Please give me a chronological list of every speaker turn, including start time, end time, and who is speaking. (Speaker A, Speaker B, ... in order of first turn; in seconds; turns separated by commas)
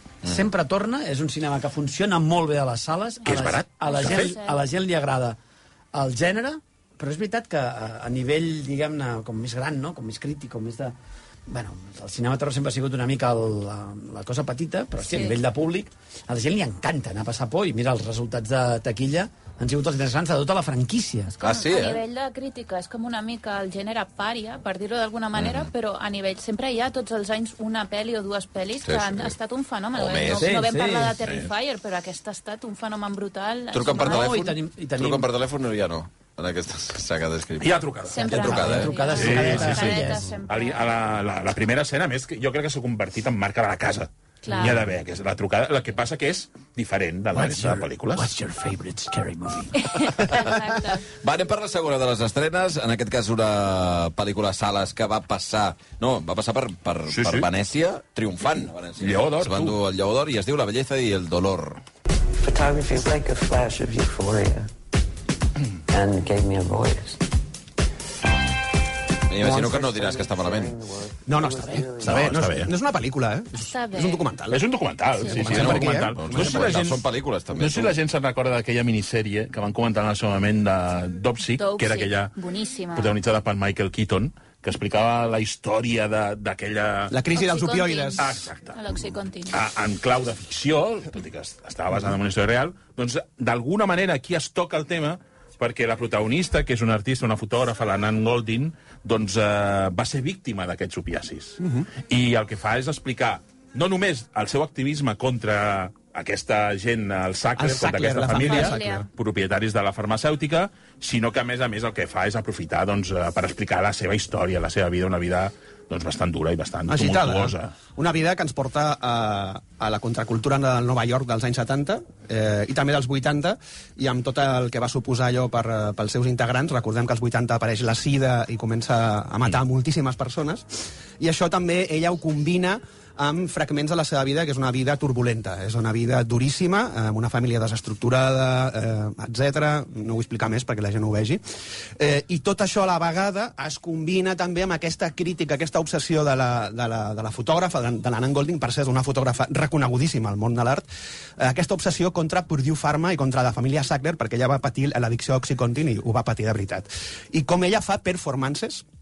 Speaker A: 0.2-5.4, Speaker B: 3.2-4.4, Speaker C: 3.8-4.6, Speaker A: 5.9-10.9, Speaker A: 11.5-21.3, Speaker C: 15.1-15.4, Speaker C: 21.3-34.5, Speaker D: 21.4-22.0, Speaker D: 25.4-25.7, Speaker D: 28.8-29.3, Speaker D: 29.9-30.6, Speaker A: 30.3-31.1, Speaker D: 33.7-38.9, Speaker A: 33.9-35.3, Speaker B: 37.6-38.5, Speaker C: 38.1-40.9, Speaker A: 38.3-40.2, Speaker B: 39.1-48.3, Speaker C: 44.4-44.8, Speaker A: 47.3-49.9, Speaker C: 49.8-51.0, Speaker D: 50.2-50.5, Speaker D: 51.1-61.8, Speaker B: 57.1-57.5, Speaker B: 59.0-59.8, Speaker E: 62.4-64.7, Speaker E: 65.9-67.2, Speaker D: 69.3-70.7, Speaker E: 69.4-72.4, Speaker F: 71.3-74.6, Speaker B: 72.0-72.7, Speaker C: 73.5-74.3, Speaker B: 74.5-77.0, Speaker F: 75.2-76.7, Speaker D: 75.4-77.9, Speaker B: 77.5-82.3, Speaker C: 81.6-83.2, Speaker B: 82.9-87.1, Speaker F: 87.1-88.3, Speaker C: 87.3-89.6, Speaker B: 88.2-88.9, Speaker B: 89.5-117.8, Speaker F: 107.5-109.1, Speaker C: 108.3-109.1, Speaker F: 116.9-130.6, Speaker F: 131.2-141.4, Speaker F: 142.0-150.8, Speaker F: 151.4-158.8